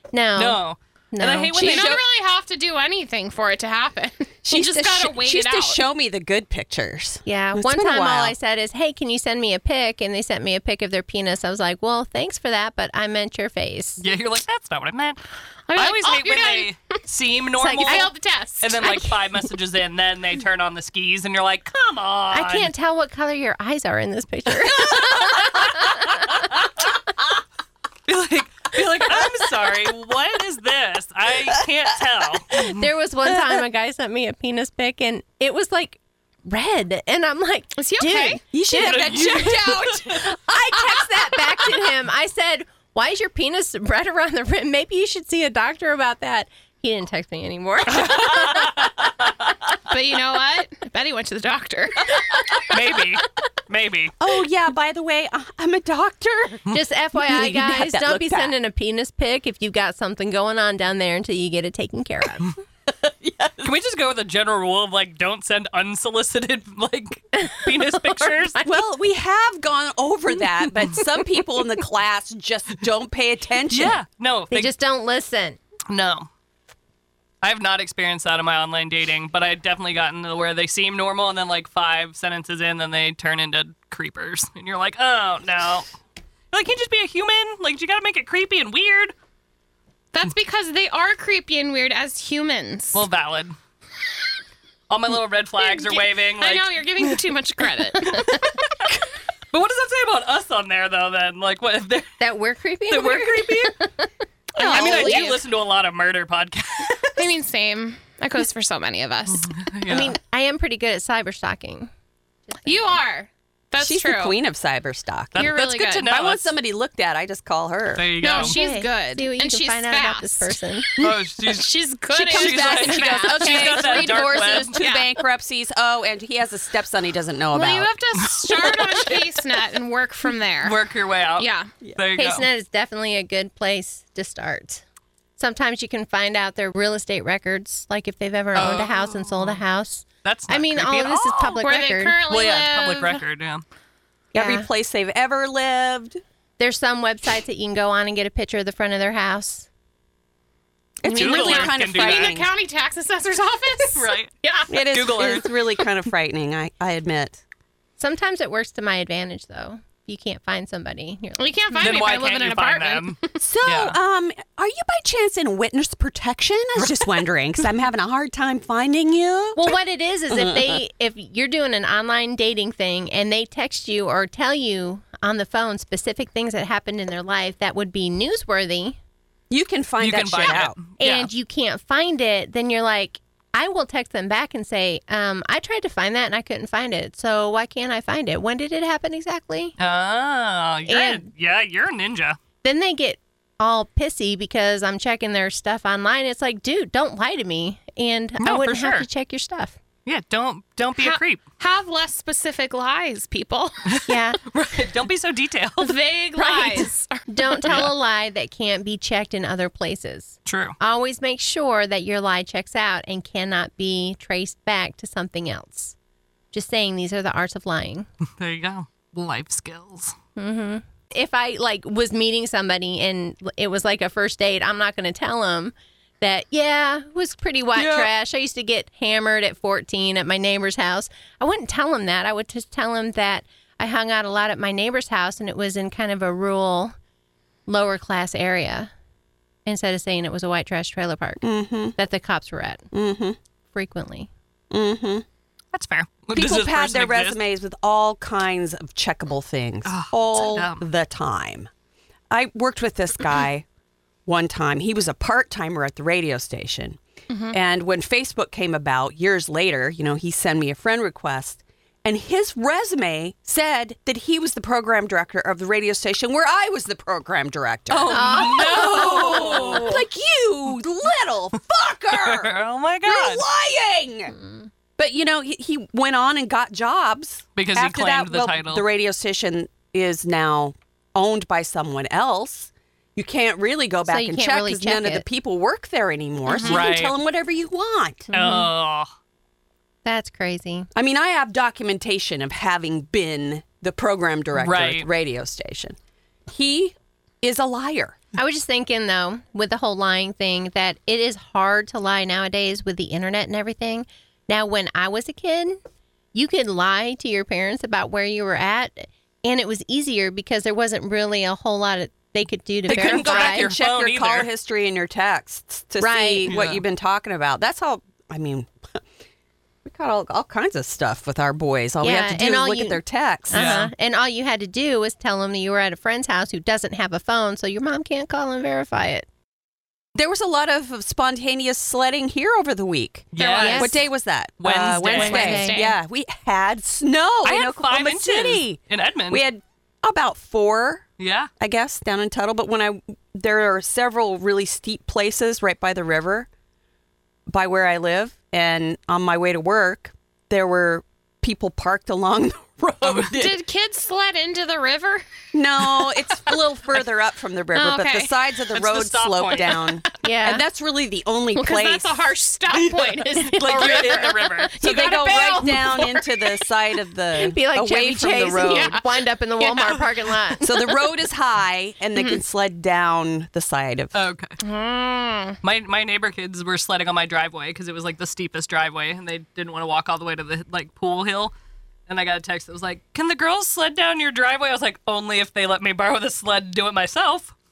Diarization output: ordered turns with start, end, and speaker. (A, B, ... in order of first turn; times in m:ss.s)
0:00.1-0:00.6 A
0:00.4-0:02.0 B
0:01.1-0:01.6 A
0:01.5-0:02.0 C
0:01.6-0:05.8 D
0:04.4-0:08.3 C
0:07.2-0:14.0 A
0:14.0-0:15.2 B
0:15.7-0:16.7 D
0:15.7-0:18.1 B
0:17.6-0:18.1 A
0:17.8-0:18.8 D
0:18.6-0:22.7 B
0:18.8-0:19.5 A
0:22.3-0:26.2 A
0:24.7-0:25.5 B
0:28.1-0:32.9 B
0:32.5-0:38.4 A
0:37.8-0:38.4 D
0:38.5-0:40.3 C
0:38.7-0:40.2 B
0:40.2-0:48.9 A
0:48.0-0:48.7 B
0:49.9-0:52.2 D
0:52.7-0:54.1 B
0:54.2-0:56.6 C
0:56.7-1:02.6 A
0:57.2-0:58.6 C
1:03.0-1:03.7 C
1:03.6-1:08.6 B
1:07.6-1:08.8 A
1:08.6-1:14.0 C
1:13.7-1:14.7 B
1:14.5-1:15.6 A
1:15.9-1:16.3 B
1:17.4-1:25.8 B
1:26.5-1:29.1 B
1:30.1-1:33.0 D
1:32.9-1:33.5 B
1:34.9-1:37.1 B
1:35.6-1:38.2 D
1:38.0-1:39.0 B
1:39.5-1:42.2 B
1:42.2-1:44.0 A
1:42.9-1:43.8 B
1:44.5-1:45.4 D
1:44.6-1:45.2 A
1:44.6-1:47.3 B
1:47.2-1:49.5 D
1:49.3-1:50.2 B
1:49.9-1:51.9 A
1:52.6-1:53.0 A
1:52.6-1:54.4 D
1:53.8-1:55.5 C
1:55.3-1:56.5 B
1:55.3-1:56.1 D
1:56.0-1:58.1 C
1:58.0-1:58.6 B
1:58.2-2:00.6 D
1:58.3-2:00.9 A
2:01.0-2:04.7 B
2:01.4-2:05.2 D
2:02.2-2:07.9 C
2:07.5-2:10.8 D
2:08.5-2:09.2 B
2:10.6-2:12.5 B
2:11.4-2:11.7 D
2:12.1-2:14.8 A
2:15.4-2:22.2 A
2:18.5-2:19.6 B
2:20.2-2:21.6 B
2:21.6-2:23.2 D
2:22.3-2:23.6 B
2:24.3-2:26.2 C
2:24.3-2:24.6 A
2:26.6-2:29.7 A
2:31.0-2:32.5 C
2:31.0-2:34.7 D
2:31.1-2:32.4 B
2:33.9-2:34.3 B
2:34.7-2:37.4 C
2:34.9-2:35.5 B
2:38.0-2:41.9 A
2:41.4-2:43.4 D
2:41.8-2:44.0 B
2:43.4-2:49.7 C
2:49.6-2:59.0 A
2:50.3-2:50.8 C
2:59.5-3:00.8 C
3:00.0-3:01.3 B
3:00.4-3:09.7 A
3:09.8-3:12.4 B
3:10.9-3:11.2 A
3:12.6-3:19.8 A
3:18.4-3:19.1 B
3:20.0-3:21.4 B
3:21.0-3:23.9 D
3:23.9-3:26.0 B
3:24.1-3:24.4 A
3:25.8-3:27.8 D
3:26.4-3:35.9 A
3:27.6-3:27.9 B
3:30.4-3:30.8 B
3:36.5-3:38.1 A
3:38.4-3:40.1 B
3:40.4-3:56.9 A
3:47.8-3:48.1 B
3:57.7-3:58.9 A
3:59.6-4:01.4 A
4:01.4-4:02.0 C
4:02.0-4:02.9 A
4:02.9-4:03.4 C
4:03.7-4:04.3 A
4:04.7-4:05.2 C
4:05.7-4:07.4 B
4:06.3-4:11.7 C
4:09.8-4:10.8 B
4:12.3-4:13.6 C
4:14.2-4:17.0 C
4:17.3-4:17.6 D
4:17.5-4:32.5 C
4:27.9-4:30.0 B
4:28.1-4:29.8 A
4:32.1-4:33.4 B
4:33.0-4:34.3 C
4:34.4-4:34.7 A
4:35.0-4:48.2 C
4:37.6-4:38.8 B
4:44.0-4:45.2 A
4:46.5-4:46.8 D
4:46.7-4:47.2 B
4:48.3-4:48.7 A
4:48.3-4:49.1 B
4:50.0-4:50.9 A
4:50.9-4:56.0 C
4:54.6-4:55.0 B
4:56.5-4:58.2 C
4:58.3-5:05.8 A
5:06.3-5:13.7 A
5:12.9-5:14.5 B
5:12.9-5:19.0 C
5:16.0-5:16.5 A
5:16.5-5:16.8 B
5:19.8-5:23.8 C
5:22.0-5:29.2 A
5:23.5-5:23.9 B
5:30.1-5:38.8 C
5:33.3-5:33.9 B
5:33.4-5:34.0 D
5:33.4-5:34.0 A
5:34.6-5:35.6 B
5:35.2-5:35.8 A
5:35.2-5:35.9 D
5:37.4-5:39.4 B
5:39.3-5:41.0 C
5:41.2-5:41.5 B
5:41.6-5:46.5 C
5:47.5-5:53.6 C
5:53.1-5:55.2 D
5:55.5-6:02.4 C
5:57.7-5:58.3 D
5:58.7-5:59.9 B
6:00.2-6:00.6 A
6:01.5-6:06.2 D
6:02.7-6:04.7 B
6:03.6-6:04.3 A
6:04.8-6:09.0 C
6:07.4-6:10.6 A
6:08.6-6:09.0 D
6:09.6-6:09.9 D
6:10.6-6:14.2 C
6:12.1-6:12.4 D
6:14.1-6:14.6 B
6:14.6-6:15.6 D
6:15.6-6:21.5 B
6:22.1-6:27.5 B